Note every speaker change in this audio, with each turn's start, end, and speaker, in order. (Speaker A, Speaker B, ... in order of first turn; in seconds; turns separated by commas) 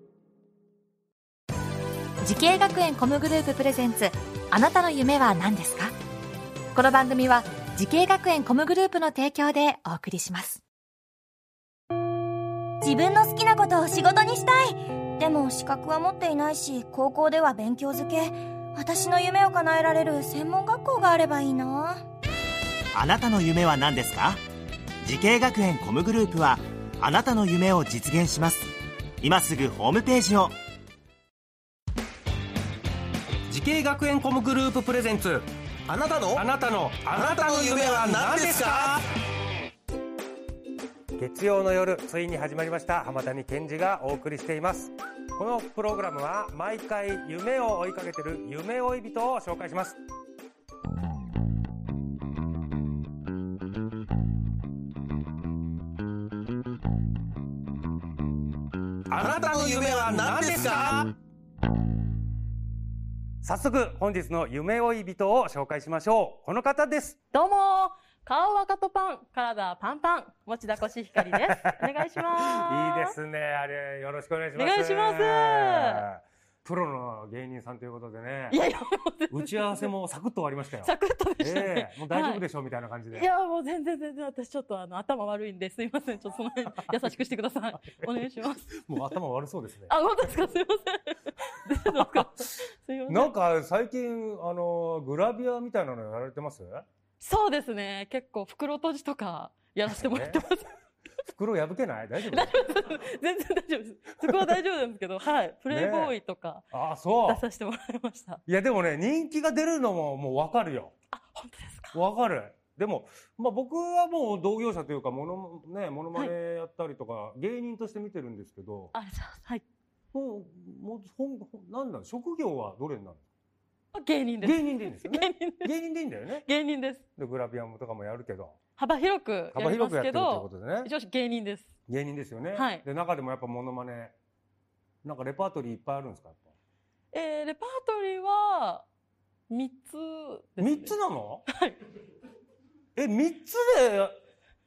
Speaker A: 2.2-5.9, Speaker A: 6.8-10.6, Speaker B: 12.8-22.0, Speaker C: 22.9-24.4, Speaker C: 25.0-30.6, Speaker D: 33.5-35.5, Speaker E: 35.9-36.4, Speaker D: 36.3-39.0, Speaker E: 37.2-39.0, Speaker D: 41.2-50.0, Speaker E: 59.1-61.1, Speaker D: 59.2-61.0, Speaker D: 63.4-67.2, Speaker F: 67.3-73.2, Speaker D: 71.3-71.8, Speaker D: 72.4-78.6, Speaker F: 74.5-76.0, Speaker F: 78.5-79.9, Speaker D: 79.3-83.3, Speaker F: 80.8-82.4, Speaker F: 83.1-88.8, Speaker D: 88.8-89.9, Speaker F: 89.9-93.3, Speaker D: 93.1-96.8, Speaker F: 97.2-100.8, Speaker D: 99.9-100.4, Speaker D: 101.3-102.5, Speaker F: 102.3-106.7, Speaker D: 105.7-106.2, Speaker D: 106.7-107.4, Speaker F: 107.2-108.4, Speaker D: 108.5-110.9, Speaker F: 111.1-112.0, Speaker D: 111.9-118.9, Speaker F: 118.9-119.6, Speaker D: 120.1-123.2, Speaker F: 123.9-125.7, Speaker D: 124.4-126.5, Speaker F: 126.4-127.0, Speaker D: 127.2-128.6, Speaker F: 128.8-131.7, Speaker D: 129.5-130.9, Speaker D: 131.9-134.2, Speaker F: 132.5-132.8, Speaker D: 135.0-136.4, Speaker F: 137.1-138.9, Speaker F: 139.5-141.0, Speaker D: 140.6-141.5, Speaker F: 141.5-141.8, Speaker D: 143.0-144.1